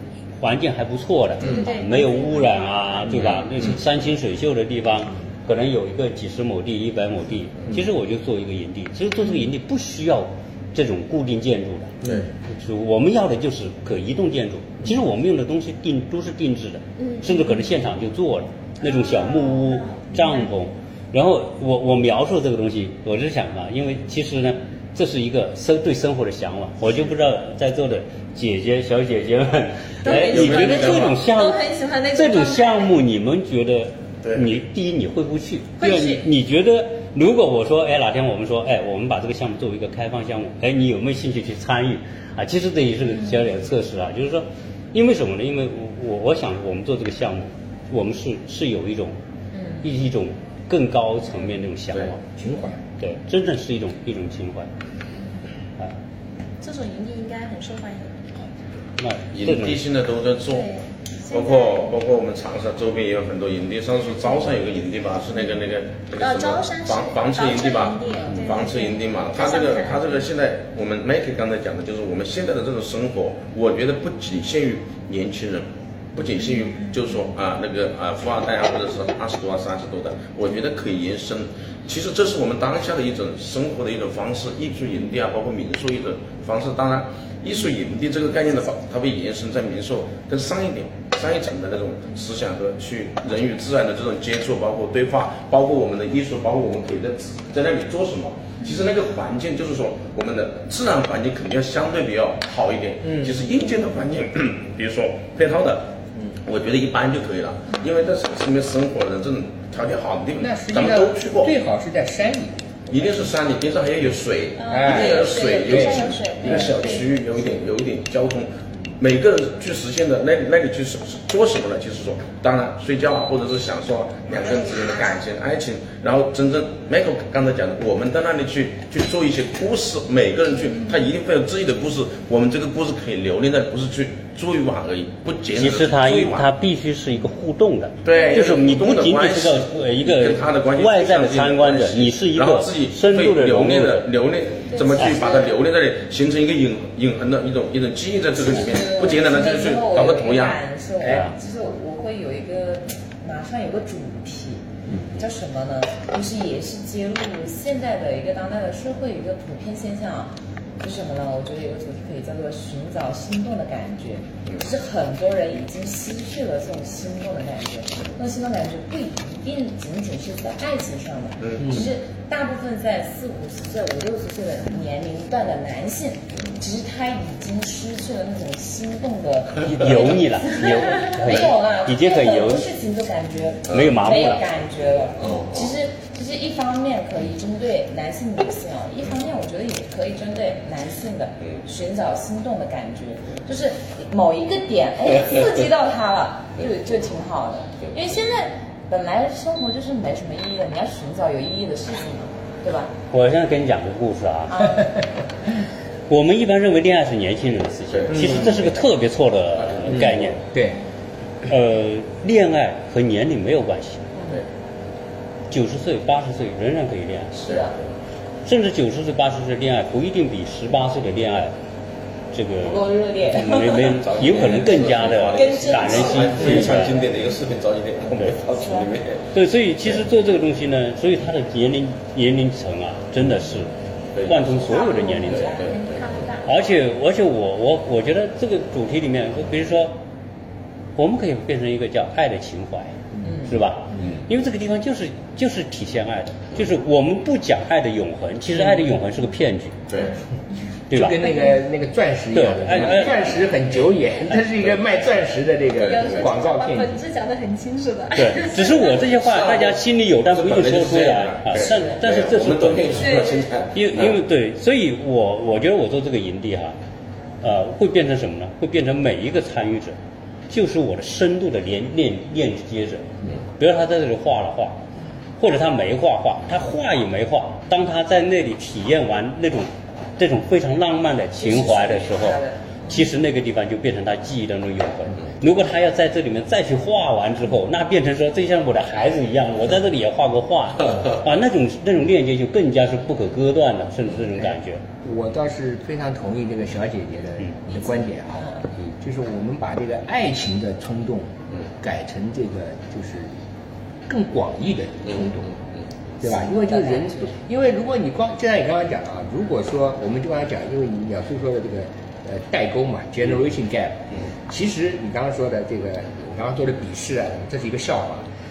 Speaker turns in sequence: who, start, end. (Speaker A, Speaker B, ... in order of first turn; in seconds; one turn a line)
Speaker A: 0.4-49.1
Speaker B: 1.4-3.3
Speaker C: 3.1-3.7
Speaker B: 17.2-17.4
Speaker B: 18.9-20.3
Speaker B: 30.0-32.9
Speaker C: 30.0-31.2
Speaker B: 35.8-36.2
Speaker A: 49.8-52.2
Speaker D: 52.3-52.8
Speaker A: 53.0-54.7
Speaker B: 56.6-58.2
Speaker A: 59.0-59.8
Speaker C: 59.3-60.7
Speaker B: 60.5-61.9
Speaker C: 61.3-111.5
Speaker B: 66.2-70.3
Speaker D: 110.4-112.6
Speaker C: 112.9-136.5
Speaker B: 114.6-117.1
Speaker D: 114.7-116.8
Speaker A: 135.5-144.1
Speaker C: 138.0-150.6
Speaker B: 144.7-145.4
Speaker E: 148.5-154.6
Speaker A: 151.0-151.3
Speaker E: 155.2-202.9
Speaker C: 171.4-171.8
Speaker D: 171.6-171.9
Speaker A: 179.7-182.7
Speaker A: 183.7-184.4
Speaker C: 185.2-185.8
Speaker A: 203.1-204.8
Speaker E: 204.5-204.8
Speaker A: 206.1-210.4
Speaker C: 207.9-208.7
Speaker D: 208.1-208.4
Speaker C: 209.6-210.3
Speaker D: 210.5-210.8
Speaker A: 211.4-214.1
Speaker A: 215.5-217.4
Speaker E: 217.4-217.7
Speaker C: 217.4-217.8
Speaker A: 218.4-221.5
Speaker A: 222.3-227.0
Speaker E: 222.6-224.0
Speaker C: 223.9-229.2
Speaker E: 225.3-226.9
Speaker A: 229.3-235.6
Speaker C: 234.1-234.6
Speaker B: 234.7-236.6
Speaker E: 234.8-235.4
Speaker C: 235.2-236.1
Speaker A: 236.4-240.0
Speaker A: 241.0-249.9
Speaker C: 249.9-250.2
Speaker A: 250.9-251.3
Speaker D: 250.9-257.0
Speaker A: 252.3-253.2
Speaker B: 255.8-259.0
Speaker C: 255.8-256.2
Speaker A: 258.1-266.8
Speaker C: 259.1-264.2
Speaker B: 263.0-263.5
Speaker A: 267.4-269.9
Speaker A: 270.5-274.8
Speaker A: 275.4-294.8
Speaker E: 281.4-283.0
Speaker D: 295.0-303.3
Speaker D: 304.1-305.5
Speaker D: 306.2-318.3
Speaker E: 306.2-307.3